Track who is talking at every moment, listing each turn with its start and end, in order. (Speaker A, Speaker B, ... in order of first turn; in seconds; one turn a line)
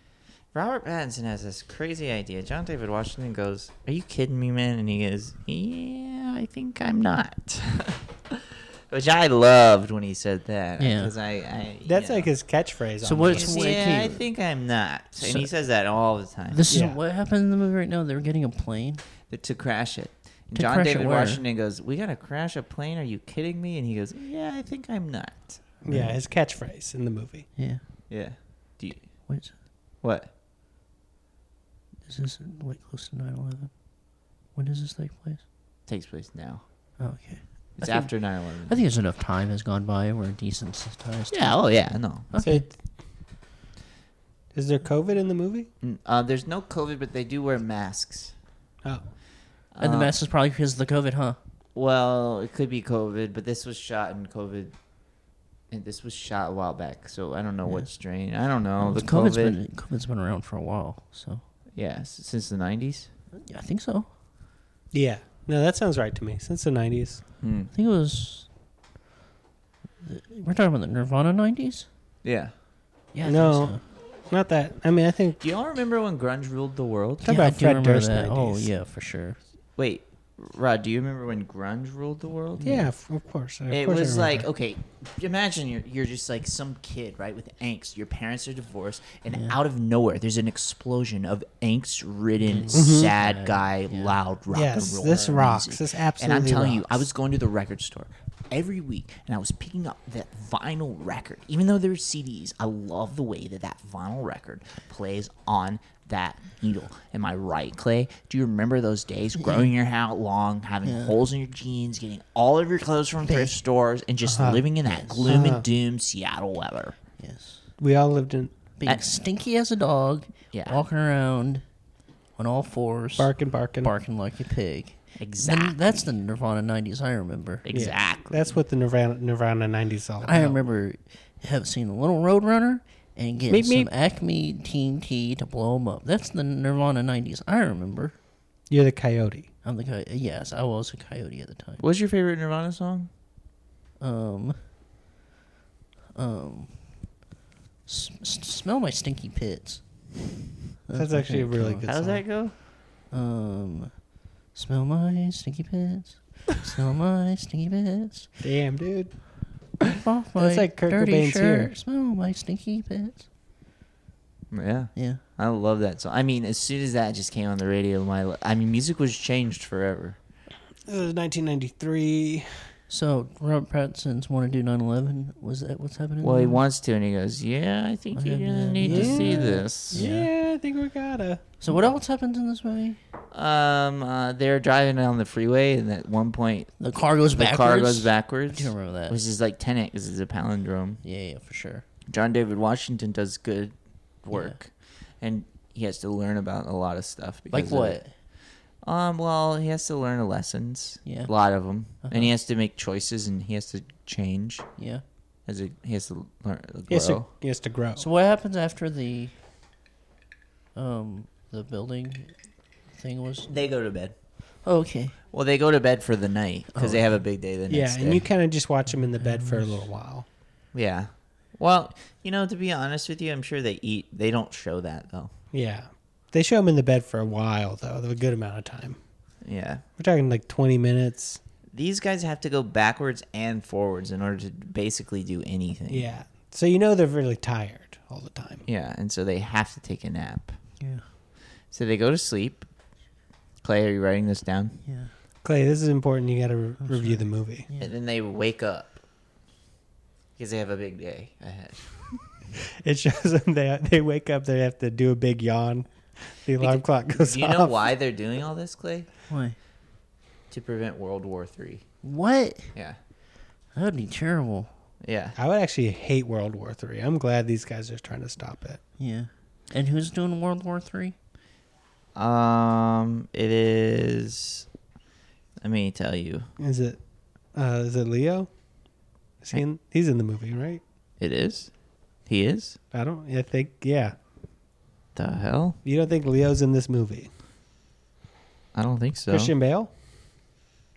Speaker A: 0.5-12.3
Speaker B: 10.8-11.1
Speaker C: 11.8-13.6
Speaker B: 13.0-14.2
Speaker A: 13.3-16.7
Speaker B: 15.2-15.5
Speaker B: 16.5-19.0
Speaker C: 16.7-17.0
Speaker A: 19.3-26.0
Speaker B: 20.6-21.4
Speaker C: 25.8-27.5
Speaker B: 27.6-27.8
Speaker A: 28.1-29.3
Speaker B: 29.3-29.6
Speaker A: 30.0-30.3
Speaker B: 32.0-33.7
Speaker B: 34.5-35.4
Speaker A: 35.9-36.6
Speaker B: 37.0-42.7
Speaker A: 37.8-38.8
Speaker A: 41.3-42.3
Speaker C: 42.4-42.8
Speaker C: 44.5-45.7
Speaker A: 45.8-48.3
Speaker A: 49.8-50.1
Speaker B: 49.8-51.4
Speaker A: 51.8-54.7
Speaker A: 55.7-59.6
Speaker B: 57.6-57.9
Speaker B: 58.8-61.4
Speaker A: 61.8-63.1
Speaker B: 63.4-64.1
Speaker C: 64.9-67.2
Speaker A: 67.4-67.7
Speaker B: 67.7-68.5
Speaker B: 70.0-71.9
Speaker A: 72.2-72.5
Speaker B: 73.1-73.8
Speaker C: 73.2-75.4
Speaker A: 75.4-77.3
Speaker C: 77.2-78.7
Speaker B: 77.2-79.4
Speaker A: 79.8-82.9
Speaker B: 82.6-82.9
Speaker C: 82.6-84.5
Speaker A: 83.7-117.0
Speaker B: 89.3-89.6
Speaker B: 92.5-94.2
Speaker C: 92.7-93.1
Speaker C: 94.5-97.0
Speaker B: 109.4-109.7
Speaker B: 110.8-111.2
Speaker B: 113.3-113.5
Speaker C: 114.2-114.6
Speaker B: 114.9-115.3
Speaker C: 115.3-115.7
Speaker B: 117.2-117.7
Speaker C: 117.8-118.5
Speaker B: 118.8-121.6
Speaker A: 120.5-120.8
Speaker B: 122.4-127.7
Speaker C: 123.2-123.9
Speaker A: 125.2-125.8
Speaker A: 127.7-128.5
Speaker C: 127.7-130.6
Speaker B: 130.2-138.2
Speaker C: 133.5-133.9
Speaker C: 138.7-139.5
Speaker B: 139.6-141.8
Speaker A: 141.8-143.1
Speaker B: 144.0-144.6
Speaker B: 146.2-147.0
Speaker B: 147.9-149.8
Speaker B: 150.9-151.9
Speaker C: 150.9-152.2
Speaker A: 151.9-152.6
Speaker B: 153.1-154.0
Speaker B: 154.5-158.3
Speaker C: 158.4-159.2
Speaker B: 159.8-163.3
Speaker C: 160.4-161.7
Speaker A: 164.5-170.2
Speaker B: 165.0-165.2
Speaker C: 170.8-172.7
Speaker B: 172.9-176.6
Speaker A: 176.2-180.1
Speaker B: 178.2-180.3
Speaker C: 178.8-181.6
Speaker B: 181.6-183.0
Speaker A: 183.3-191.0
Speaker B: 186.8-189.2
Speaker B: 191.0-191.8
Speaker A: 192.1-198.0
Speaker B: 197.5-198.1
Speaker A: 198.8-204.7
Speaker B: 201.1-201.3
Speaker B: 202.0-202.3
Speaker B: 204.8-205.0
Speaker A: 205.5-207.3
Speaker C: 206.9-208.1
Speaker B: 208.0-209.3
Speaker B: 210.8-212.3
Speaker B: 212.9-213.5
Speaker A: 213.5-214.1
Speaker B: 214.6-215.2
Speaker A: 215.3-218.3
Speaker B: 216.8-217.2
Speaker C: 217.7-220.3
Speaker B: 219.2-219.8
Speaker A: 220.7-225.3
Speaker C: 225.5-229.0
Speaker A: 229.4-229.8
Speaker C: 230.0-231.4
Speaker A: 231.7-236.1
Speaker C: 235.9-238.6
Speaker A: 238.7-240.6
Speaker B: 240.8-241.1
Speaker A: 241.7-242.7
Speaker A: 243.6-244.8
Speaker B: 244.8-245.1
Speaker C: 245.4-247.7
Speaker B: 246.8-247.9
Speaker A: 247.8-249.0
Speaker A: 250.4-252.2
Speaker C: 252.8-257.8
Speaker A: 256.6-259.1
Speaker B: 259.3-259.6
Speaker A: 260.5-261.9
Speaker B: 262.0-262.7
Speaker B: 263.7-264.7
Speaker A: 265.0-265.4
Speaker C: 265.4-268.8
Speaker B: 269.0-271.2
Speaker A: 272.1-274.7
Speaker A: 275.6-276.5
Speaker C: 276.6-277.0
Speaker C: 277.5-278.5
Speaker C: 279.4-280.8
Speaker A: 281.2-281.7
Speaker A: 282.3-282.8
Speaker C: 282.9-284.1
Speaker A: 285.1-285.8
Speaker C: 285.8-287.3
Speaker A: 288.7-289.5
Speaker C: 289.3-289.9